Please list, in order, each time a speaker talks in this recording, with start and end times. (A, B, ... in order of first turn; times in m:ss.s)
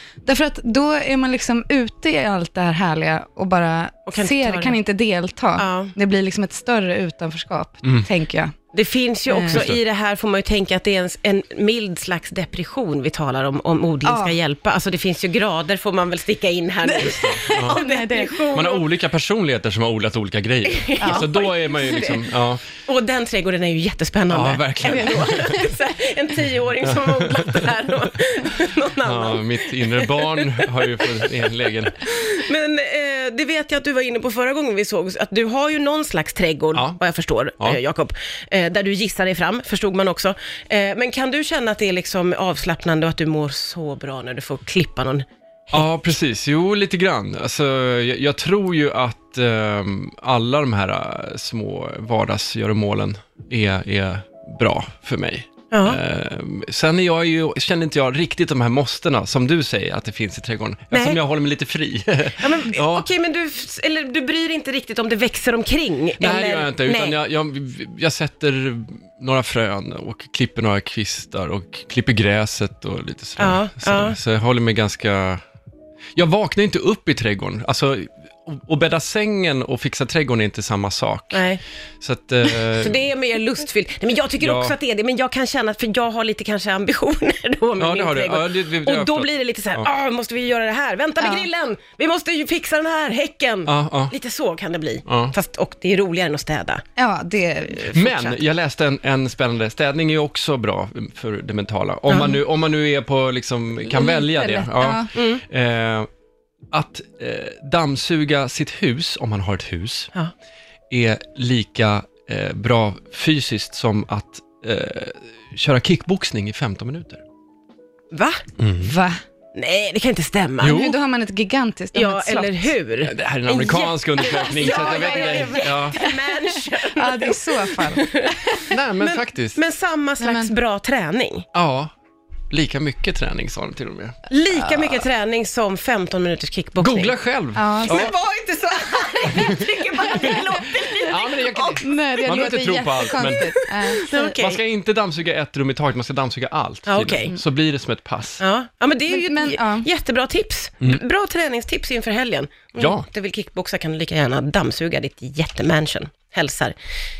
0:00.3-0:08.6 A
0:04.1-0:04.8 B
0:05.6-0:05.9 B
0:08.7-0:18.8 B
0:09.3-0:09.7 A
0:09.5-0:09.8 C
0:14.0-0:14.4 A
0:16.8-0:18.4 A
0:17.1-0:17.8 C
0:18.5-0:22.6 C
0:20.7-0:22.2 B
0:21.0-0:21.3 A
0:22.9-0:45.8 B
0:24.3-0:25.5 C
0:24.9-0:25.7 A
0:26.8-0:27.7 C
0:29.0-0:32.0 C
0:45.7-1:03.1 C
0:55.7-0:56.0 B
1:00.9-1:01.2 B
1:02.4-1:07.2 B
1:06.2-1:15.4 C
1:13.4-1:14.2 B
1:16.2-1:21.4 C
1:21.3-1:21.6 B
1:22.0-1:23.0 C
1:22.7-1:36.8 B
1:24.4-1:24.8 C
1:27.8-1:29.9 C
1:31.2-1:31.5 A
1:33.7-1:34.1 C
1:35.1-1:35.3 C
1:37.0-1:38.4 A
1:37.9-1:46.1 C
1:43.9-1:45.1 A
1:45.1-1:45.4 B
1:46.7-1:50.1 C
1:50.9-1:57.2 C
1:58.1-1:58.4 B
1:58.6-1:58.9 C
1:58.8-1:59.2 A
1:59.6-2:00.8 B
2:00.6-2:01.0 C
2:00.6-2:02.7 A
2:01.9-2:11.5 B
2:03.0-2:06.0 C
2:04.2-2:08.7 A
2:08.7-2:09.6 C
2:10.2-2:10.5 A
2:11.5-2:11.9 C
2:12.5-2:14.2 C
2:14.3-2:17.1 B
2:16.8-2:18.1 C
2:17.6-2:18.1 A
2:17.9-2:21.9 B
2:19.3-2:19.6 C
2:19.9-2:21.0 A
2:21.1-2:23.6 C
2:21.8-2:24.4 A
2:23.9-2:24.6 B
2:24.4-2:28.4 C
2:26.9-2:27.4 B
2:28.4-2:36.7 B
2:29.1-2:29.9 A
2:32.8-2:33.1 C